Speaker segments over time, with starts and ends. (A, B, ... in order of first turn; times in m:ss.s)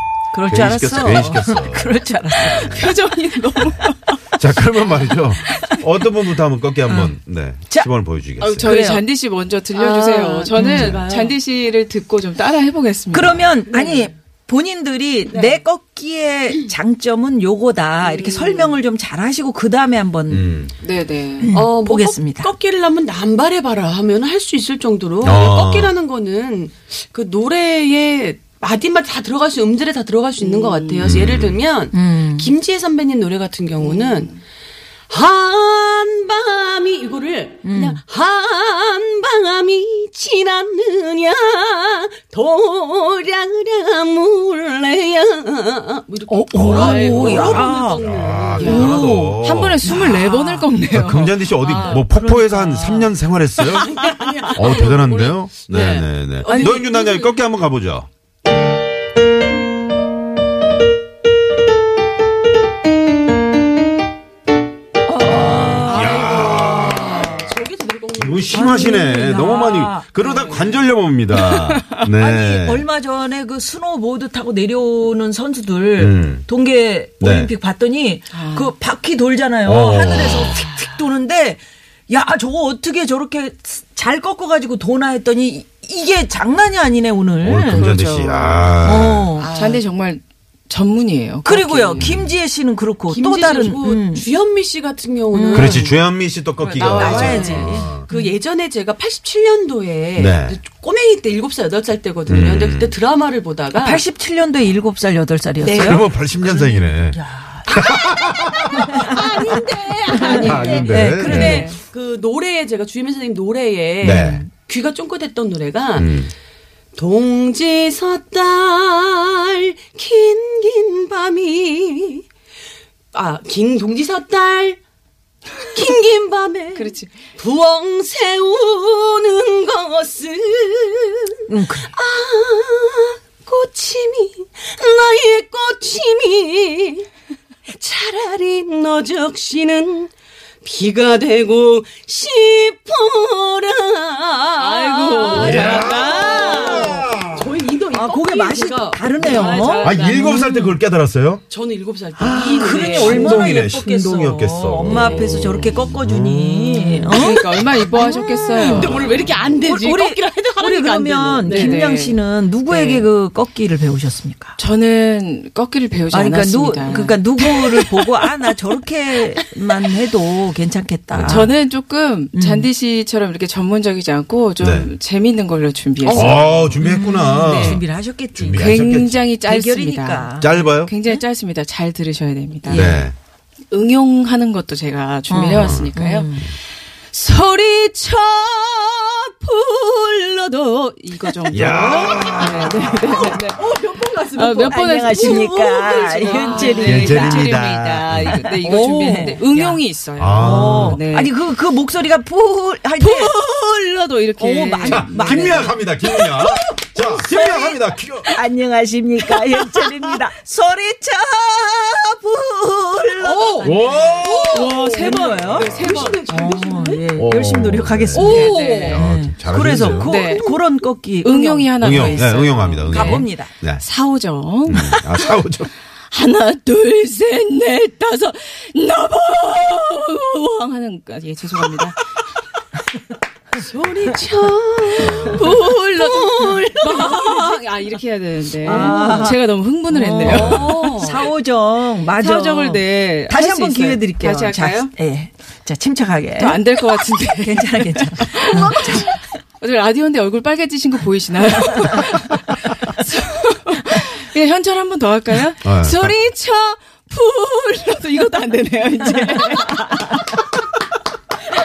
0:00.3-0:02.8 A
0:00.5-0:02.9 B
0:02.6-0:04.2 C
0:04.3-0:08.7 B
0:05.4-0:05.8 C
0:06.9-0:07.2 A
0:08.4-0:13.4 C
0:08.7-0:09.0 A
0:09.8-0:11.4 D
0:10.6-0:11.0 A
0:13.1-0:20.6 A
0:13.7-0:14.1 D
0:15.3-0:15.6 D
0:18.2-0:18.8 D
0:20.3-0:20.7 B
0:20.8-0:21.5 C
0:21.4-0:22.5 A
0:21.5-0:34.4 D
0:25.2-0:25.9 B
0:30.4-0:31.2 C
0:31.0-0:31.6 B
0:31.9-0:32.5 A
0:33.8-0:34.4 C
0:35.1-0:49.0 D
0:37.6-0:38.0 A
0:46.3-0:48.1 A
0:46.5-0:50.1 B
0:48.6-0:50.7 A
0:48.6-0:51.5 C
0:50.9-0:58.1 B
0:51.6-0:53.2 A
0:51.7-0:52.0 D
0:53.7-0:57.3 D
0:56.5-0:56.9 A
1:05.1-1:07.0 A
1:05.8-1:07.4 B
1:05.9-1:09.1 D
1:08.2-1:12.9 B
1:08.5-1:10.7 A
1:10.2-1:10.7 D
1:11.4-1:11.8 C
1:12.2-1:27.9 A
1:16.0-1:16.5 B
1:17.2-1:17.5 B
1:18.3-1:18.7 C
1:19.6-1:20.7 B
1:27.4-1:29.3 B
1:27.7-1:28.8 C
1:28.8-1:29.5 A
1:29.4-1:32.1 C
1:29.4-1:29.8 D
1:31.4-1:34.3 A
1:32.0-1:32.4 B
1:33.1-1:35.9 D
1:35.3-1:35.8 A
1:35.5-1:38.1 B
1:36.6-1:44.0 D
1:36.8-1:37.2 C
1:36.9-1:38.4 A
1:40.2-1:40.6 B
1:42.3-1:43.0 B
1:43.8-1:47.7 A
1:45.6-1:46.0 D
1:45.7-1:47.2 B
1:47.7-1:48.2 D
1:47.7-1:49.0 B
1:48.7-1:51.7 A
1:48.9-1:56.2 D
1:50.2-1:51.7 B
1:51.3-1:51.7 C
1:54.0-1:54.4 B
1:54.0-1:54.5 A
1:56.0-1:56.3 B
1:57.0-2:02.2 D
2:03.1-2:04.8 D
2:05.7-2:17.1 D
2:06.7-2:07.2 C
2:11.5-2:11.9 A
2:17.7-2:20.1 D
2:20.6-2:30.4 D
2:24.6-2:26.2 C
2:25.2-2:27.1 A
2:25.4-2:27.5 B
2:27.9-2:30.8 A
2:29.8-2:31.4 B
2:31.5-2:33.6 D
2:32.2-2:38.1 A
2:32.3-2:37.1 B
2:34.9-2:35.3 D
2:37.1-2:39.1 C
2:38.0-2:41.9 D
2:39.6-2:44.6 A
2:41.4-2:43.1 C
2:44.6-2:47.2 C
2:46.1-2:51.5 A
2:47.4-2:47.9 D
2:51.1-2:51.5 B
2:51.2-2:56.8 C
2:52.3-2:52.7 A
2:54.6-2:54.9 B
2:56.1-2:59.3 B
2:56.1-2:58.7 A
2:57.4-2:57.8 C
2:58.5-3:02.9 C
2:59.4-3:01.2 A
3:00.4-3:00.9 B
3:02.7-3:03.1 A
3:02.7-3:03.2 B
3:03.7-3:06.3 C
3:05.3-3:06.6 A
3:05.5-3:05.9 B
3:07.1-3:13.8 C
3:11.5-3:13.0 B
3:12.1-3:13.4 A
3:13.2-3:17.1 D
3:14.3-3:21.3 C
3:14.6-3:19.8 A
3:16.8-3:18.5 B
3:20.2-3:21.0 B
3:20.4-3:23.4 A
3:23.0-3:25.7 C
3:24.4-3:26.2 A
3:24.9-3:28.4 B
3:27.4-3:27.6 C
3:28.3-3:43.5 A
3:33.2-3:37.1 D
3:33.6-3:34.7 B
3:34.5-3:36.1 C
3:35.5-3:36.1 B
3:37.2-3:40.3 B
3:38.1-3:39.0 D
3:38.2-3:39.1 C
3:39.8-3:40.5 C
3:41.2-3:45.2 C
3:41.8-3:43.8 B
3:44.7-3:45.7 B
3:46.1-3:52.0 C
3:53.6-3:57.5 D
3:55.0-4:00.9 C
3:58.6-4:06.8 A
3:58.7-3:59.0 D
4:00.2-4:00.6 B
4:00.3-4:01.3 D
4:02.1-4:04.9 C
4:06.4-4:20.3 C
4:07.3-4:09.4 A
4:15.6-4:16.2 B